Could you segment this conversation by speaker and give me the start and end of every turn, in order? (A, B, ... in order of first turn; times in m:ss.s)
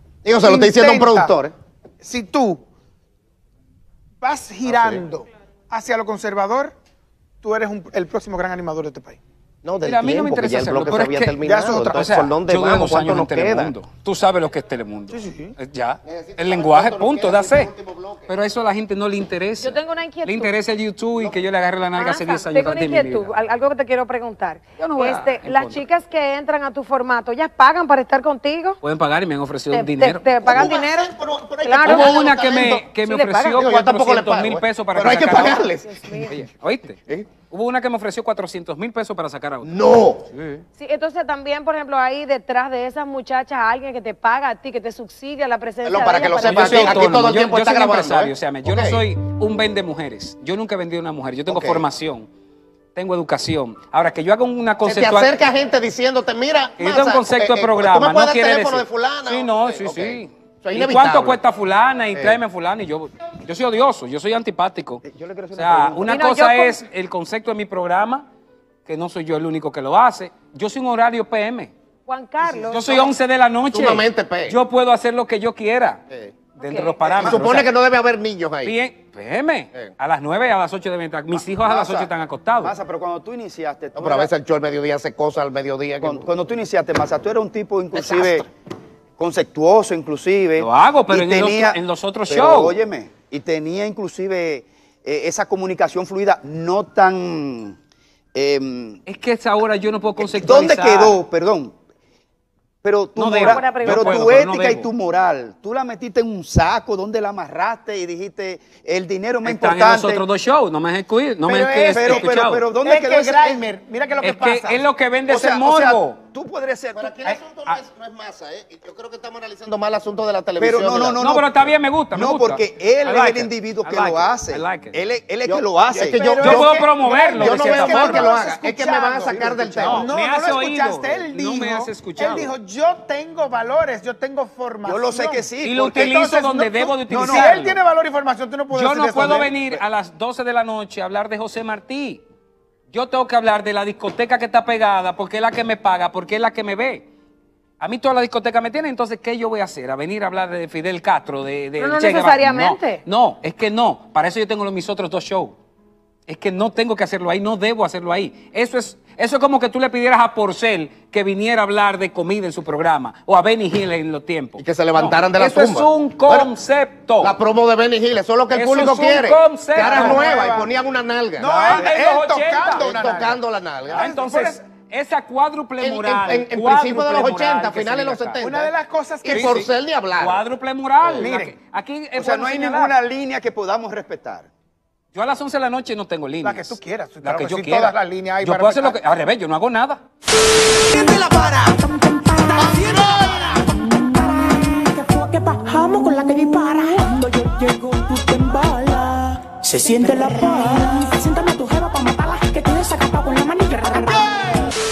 0:00.2-0:01.6 A
0:00.4-0:01.3 B
0:02.0-0:02.6 B
0:04.2-0:06.8 B
0:04.6-0:05.0 A
0:07.4-0:09.2 B
0:09.6-0:13.7 A
0:09.8-0:11.4 C
0:11.4-0:12.0 B
0:11.9-0:17.7 C
0:15.1-0:15.6 B
0:16.0-0:18.3 A
0:18.3-0:23.3 C
0:19.6-0:20.5 D
0:22.0-0:28.8 D
0:24.8-0:25.8 C
0:28.8-0:30.3 C
0:29.7-0:32.2 D
0:30.4-0:36.0 A
0:31.8-0:39.9 C
0:35.8-0:36.4 D
0:39.6-0:40.3 A
0:40.8-0:47.1 D
0:45.8-0:49.0 A
0:46.4-0:52.3 C
0:51.5-0:51.8 A
0:53.0-0:55.4 C
0:54.8-1:01.4 A
0:56.8-1:05.0 C
1:02.2-1:02.4 A
1:05.0-1:06.2 E
1:05.5-1:08.3 C
1:06.1-1:06.8 D
1:08.9-1:11.7 C
1:12.1-1:13.1 D
1:12.7-1:16.0 C
1:12.8-1:13.1 A
1:13.7-1:14.6 A
1:16.1-1:16.4 A
1:16.6-1:17.7 C
1:16.6-1:17.0 D
1:17.1-1:18.8 A
1:17.2-1:17.6 E
1:18.6-1:22.7 C
1:21.5-1:22.1 E
1:22.6-1:24.3 E
1:24.0-1:26.3 A
1:26.0-1:28.5 E
1:28.0-1:28.4 A
1:29.2-1:37.8 E
1:30.6-1:32.8 C
1:38.4-1:39.0 E
1:39.1-1:41.2 C
1:40.2-1:41.7 E
1:42.8-1:50.3 E
1:43.2-1:44.9 C
1:43.4-1:44.3 D
1:49.4-1:52.6 C
1:51.4-1:52.3 B
1:51.9-1:53.6 E
1:52.8-1:54.8 B
1:54.2-1:56.2 C
1:55.3-1:57.2 E
1:57.0-2:01.2 A
1:57.2-1:57.7 C
2:00.6-2:06.2 E
2:01.2-2:05.0 C
2:05.4-2:10.1 A
2:06.1-2:19.5 B
2:06.4-2:08.3 C
2:09.5-2:10.0 E
2:09.8-2:12.5 C
2:14.8-2:16.2 E
2:15.6-2:17.8 C
2:17.1-2:17.6 E
2:18.7-2:22.2 C
2:22.9-2:27.1 C
2:27.8-2:35.6 C
2:31.8-2:33.0 D
2:36.3-2:47.3 C
2:44.6-2:46.5 A
2:47.2-2:51.6 A
2:48.5-2:50.3 C
2:49.8-2:50.7 B
2:51.4-2:54.6 B
2:51.4-2:52.9 C
2:52.8-2:54.1 A
2:53.9-2:58.4 C
2:55.8-3:00.4 A
2:58.4-2:59.7 B
2:59.3-2:59.7 C
3:00.2-3:03.0 C
3:01.0-3:01.3 A
3:01.2-3:01.6 B
3:02.2-3:04.5 E
3:05.1-3:10.0 C
3:06.4-3:09.0 B
3:10.9-3:24.6 F
3:11.1-3:11.7 A
3:12.7-3:13.6 A
3:24.2-3:24.6 B